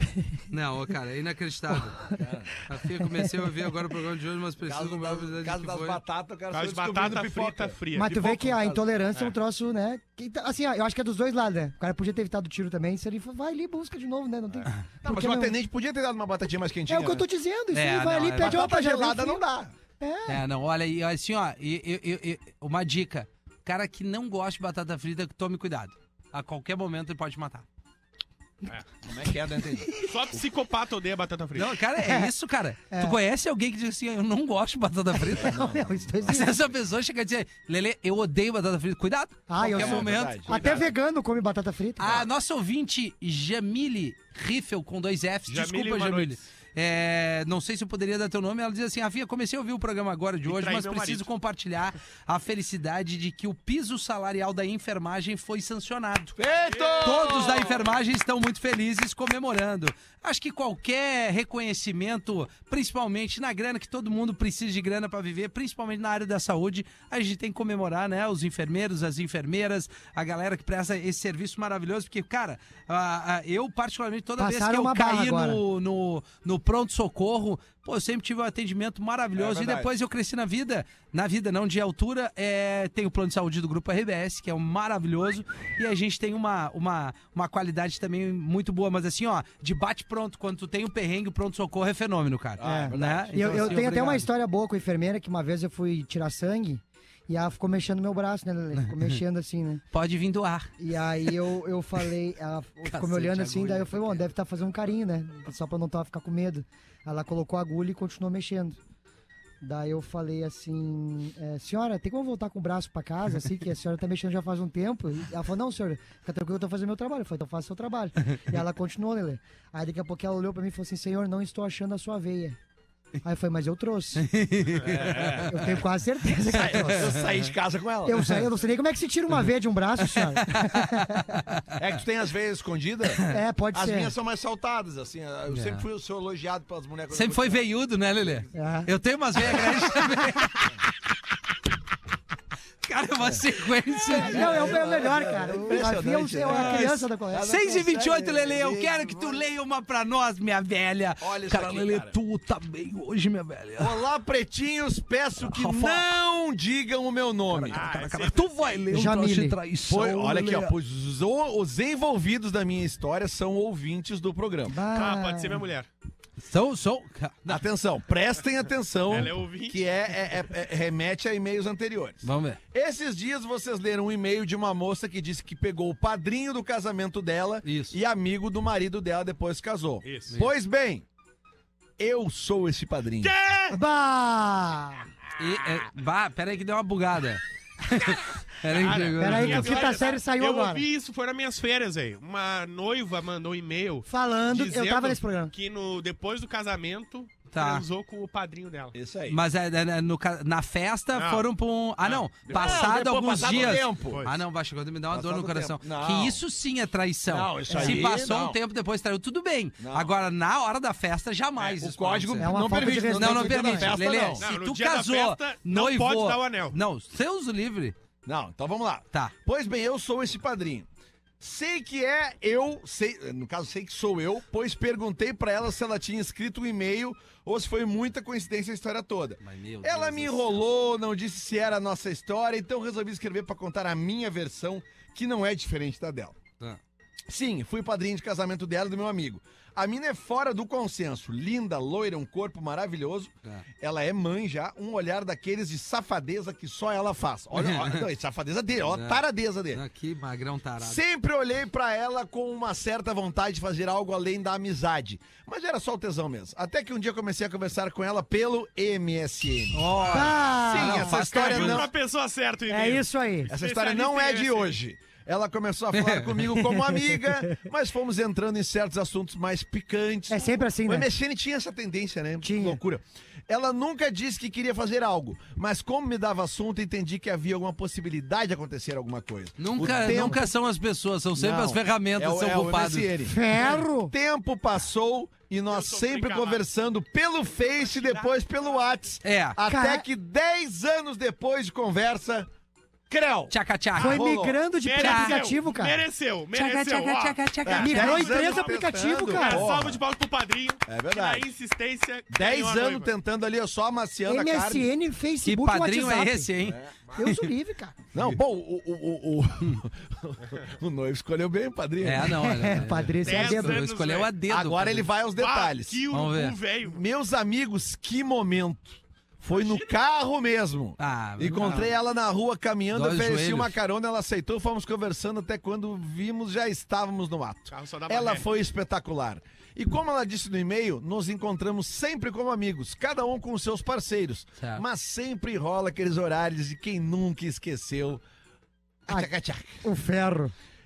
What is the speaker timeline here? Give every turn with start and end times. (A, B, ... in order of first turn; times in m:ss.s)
0:00.5-0:02.0 A
0:02.2-0:02.6 B
0:02.6-0:06.0 A
0:02.9-0:03.7 C
0:04.6-0:08.9 B
0:06.5-0:08.4 D
0:07.9-0:15.5 C
0:14.5-0:17.2 B
0:16.9-0:19.4 C
0:17.7-0:18.6 A
0:18.3-0:19.7 B
0:20.0-0:20.4 C
0:20.3-0:27.6 A
0:29.0-0:30.4 B
0:30.0-0:31.7 D
0:31.6-0:35.6 A
0:32.0-0:32.3 C
0:32.9-0:33.2 C
0:35.2-0:36.6 C
0:35.3-0:36.4 B
0:36.3-0:40.7 A
0:39.5-0:42.2 C
0:39.6-0:40.8 B
0:40.5-0:40.9 D
0:42.0-0:56.4 A
0:45.5-0:46.4 D
0:50.4-0:51.3 D
0:56.4-0:57.9 B
0:56.6-0:57.3 D
0:57.0-1:34.3 A
1:14.4-1:15.6 C
1:19.3-1:19.9 B
1:32.6-1:33.9 B
1:32.6-1:39.8 C
1:38.8-1:39.2 A
1:39.9-1:40.7 A
1:40.8-1:48.8 C
1:42.9-1:44.2 A
1:49.6-2:02.6 C
2:03.2-2:04.2 C
2:04.2-2:05.5 A
2:04.8-2:05.8 B
2:05.5-2:07.2 C
2:06.5-2:08.3 B
2:06.6-2:07.2 A
2:08.0-2:11.4 C
2:10.0-2:11.6 A
2:11.7-2:18.5 B
2:13.3-2:14.1 C
2:15.5-2:15.8 A
2:17.1-2:20.7 A
2:18.5-2:18.9 C
2:19.5-2:20.2 C
2:22.8-2:24.8 A
2:24.1-2:27.8 C
2:24.1-2:29.4 B
2:26.5-2:34.0 A
2:31.2-2:32.2 B
2:33.8-2:37.8 B
2:35.4-2:36.1 A
2:37.5-2:40.7 A
2:37.7-2:38.5 D
2:38.9-2:39.6 C
2:39.8-2:44.8 B
2:44.7-2:45.6 C
2:44.9-2:45.9 D
2:46.4-2:47.6 A
2:47.4-3:01.0 B
2:49.1-2:49.8 D
2:52.2-2:52.6 A
2:57.6-2:58.0 A
3:00.0-3:00.3 D
3:02.0-3:03.3 B
3:03.2-3:03.8 D
3:03.7-3:05.0 C
3:05.4-3:09.8 A
3:08.7-3:18.9 D
3:09.2-3:10.8 C
3:14.1-3:15.5 C
3:17.5-3:17.8 A
3:18.9-3:19.4 B
3:19.3-3:37.9 A
3:21.1-3:21.4 D
3:22.0-3:24.4 D
3:22.5-3:24.2 B
3:25.1-3:26.4 B
3:27.3-3:28.6 B
3:27.7-3:28.0 C
3:29.8-3:30.1 B
3:31.8-3:34.4 B
3:32.4-3:34.0 C
3:34.4-3:36.8 D
3:38.2-3:40.9 B
3:41.4-3:56.4 B
3:49.4-3:50.6 A
3:57.3-4:09.8 B
4:07.5-4:08.0 A
4:08.8-4:11.0 A
4:10.8-4:21.9 B
4:19.7-4:21.8 A
4:20.1-4:21.2 C
4:21.1-4:24.7 D
4:22.7-4:23.5 C
4:23.5-4:40.5 B
4:25.9-4:26.7 A
4:30.3-4:31.1 C
4:32.4-4:32.8 C
4:39.6-4:43.1 A
4:40.1-4:40.4 C
4:41.4-4:52.5 B
4:43.2-4:44.1 C
4:45.7-4:46.6 D
4:47.6-4:48.3 D
4:49.2-4:49.6 A
4:49.7-4:50.0 C
4:53.1-4:54.6 B
4:53.5-4:54.2 A
4:54.0-4:56.0 C
4:54.8-5:03.1 D
4:55.0-4:55.4 A
4:56.5-4:58.3 A
4:57.6-5:00.0 B
4:57.8-4:59.7 C
5:00.9-5:01.5 B
5:02.3-5:04.9 B
5:04.2-5:06.5 C
5:05.4-5:07.5 A
5:06.6-5:07.0 B
5:07.2-5:08.0 C
5:08.1-5:12.7 B
5:12.0-5:15.1 A
5:12.3-5:13.8 C
5:13.2-5:14.3 D
5:14.5-5:16.0 B
5:15.4-5:17.0 D
5:16.1-5:16.6 A
5:16.8-5:38.2 B
5:19.5-5:19.9 D
5:21.0-5:21.9 A
5:22.9-5:23.7 A
5:27.7-5:28.4 D
5:34.6-5:34.8 A
5:39.0-5:39.8 B
5:39.8-5:40.5 C